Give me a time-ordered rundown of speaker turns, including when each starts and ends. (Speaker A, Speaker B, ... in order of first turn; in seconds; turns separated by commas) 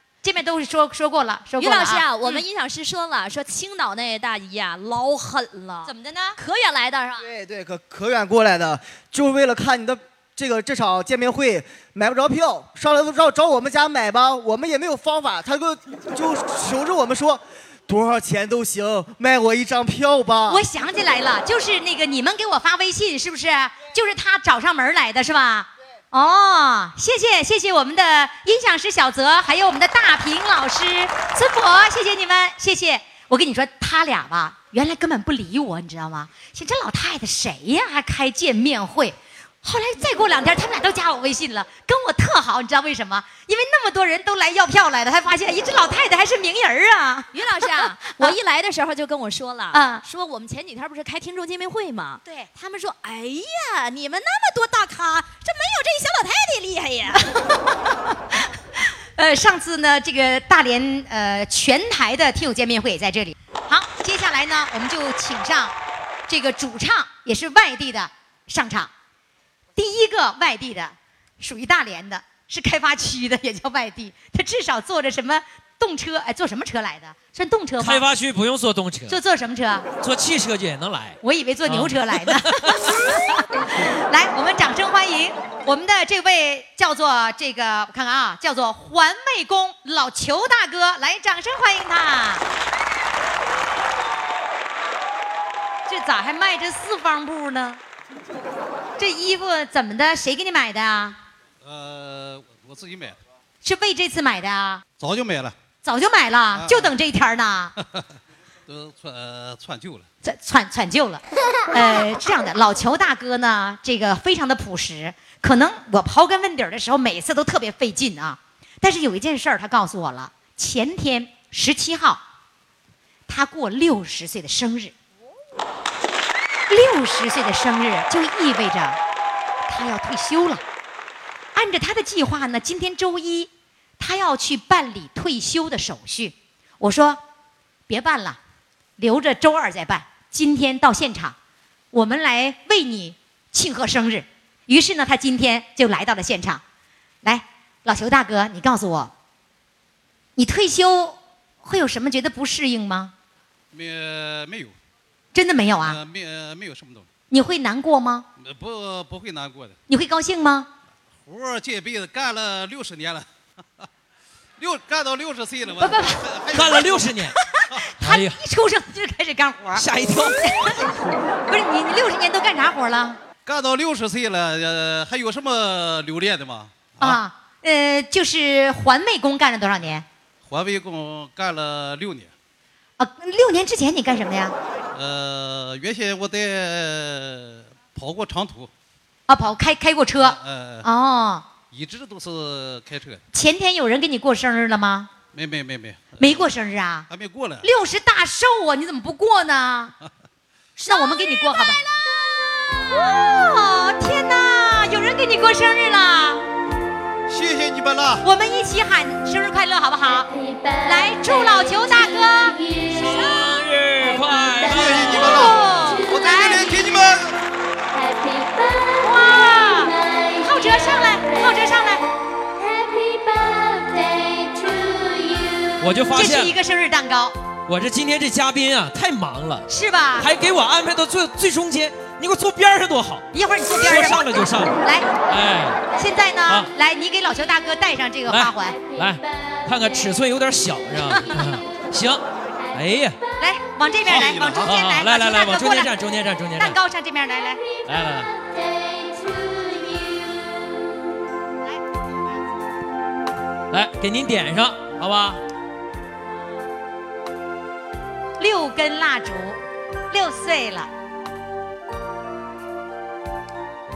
Speaker A: 0.2-2.4, Speaker B: 1.6-7.3, Speaker A: 5.8-6.4, Speaker C: 7.2-20.6, Speaker A: 20.5-48.3, Speaker B: 47.3-57.4, Speaker A: 49.7-50.0, Speaker A: 57.2-57.8, Speaker A: 59.2-65.7, Speaker A: 66.3-68.9, Speaker A: 69.8-78.0, Speaker D: 77.8-79.2, Speaker A: 79.1-79.9, Speaker D: 80.0-82.9, Speaker A: 81.2-92.4, Speaker A: 95.9-97.8, Speaker A: 99.0-101.2, Speaker E: 101.6-103.2, Speaker A: 103.6-104.8, Speaker E: 105.0-105.5, Speaker A: 105.8-107.7, Speaker E: 106.5-106.9, Speaker E: 108.7-110.0, Speaker A: 110.2-122.2, Speaker A: 123.3-124.9, Speaker A: 126.7-129.0, Speaker A: 129.7-130.6, Speaker A: 131.5-137.2, Speaker A: 137.9-138.4, Speaker A: 139.0-141.3, Speaker A: 141.9-146.6, Speaker A: 147.2-149.1, Speaker A: 150.3-153.1, Speaker E: 153.7-154.7, Speaker A: 155.3-156.0, Speaker E: 155.8-157.1, Speaker A: 157.3-158.2, Speaker E: 158.4-159.7, Speaker A: 159.9-160.7, Speaker E: 161.2-163.2, Speaker E: 164.6-167.1, Speaker A: 165.8-166.6, Speaker D: 166.5-167.3, Speaker A: 167.5-173.2, Speaker D: 168.0-168.4, Speaker D: 169.7-170.9, Speaker E: 173.4-177.2, Speaker A: 177.0-180.0, Speaker E: 180.4-182.3, Speaker A: 183.0-184.6, Speaker E: 184.9-188.7, Speaker A: 189.3-191.4, Speaker E: 190.2-190.8, Speaker E: 191.7-193.2, Speaker A: 193.3-195.1, Speaker E: 195.3-196.4, Speaker A: 196.2-197.1, Speaker E: 197.1-197.7, Speaker A: 197.6-199.9, Speaker A: 200.8-201.8, Speaker B: 200.8-203.2, Speaker A: 202.9-206.4, Speaker E: 207.3-208.2, Speaker A: 208.2-210.3, Speaker A: 210.8-212.6, Speaker D: 212.9-215.5, Speaker E: 214.6-217.4, Speaker A: 215.1-216.8, Speaker A: 219.0-222.0, Speaker B: 223.5-225.7, Speaker D: 225.8-226.5, Speaker A: 226.1-227.3, Speaker D: 227.7-229.7, Speaker A: 229.7-230.3, Speaker D: 230.2-235.8, Speaker A: 233.3-234.2, Speaker A: 234.8-235.1, Speaker A: 235.9-238.8, Speaker D: 238.3-243.2, Speaker A: 243.4-245.9, Speaker E: 244.0-244.7, Speaker D: 244.6-246.8, Speaker A: 246.6-247.6, Speaker D: 247.8-248.3, Speaker B: 249.6-250.2, Speaker D: 253.7-255.4, Speaker A: 258.4-259.6, Speaker A: 260.1-260.9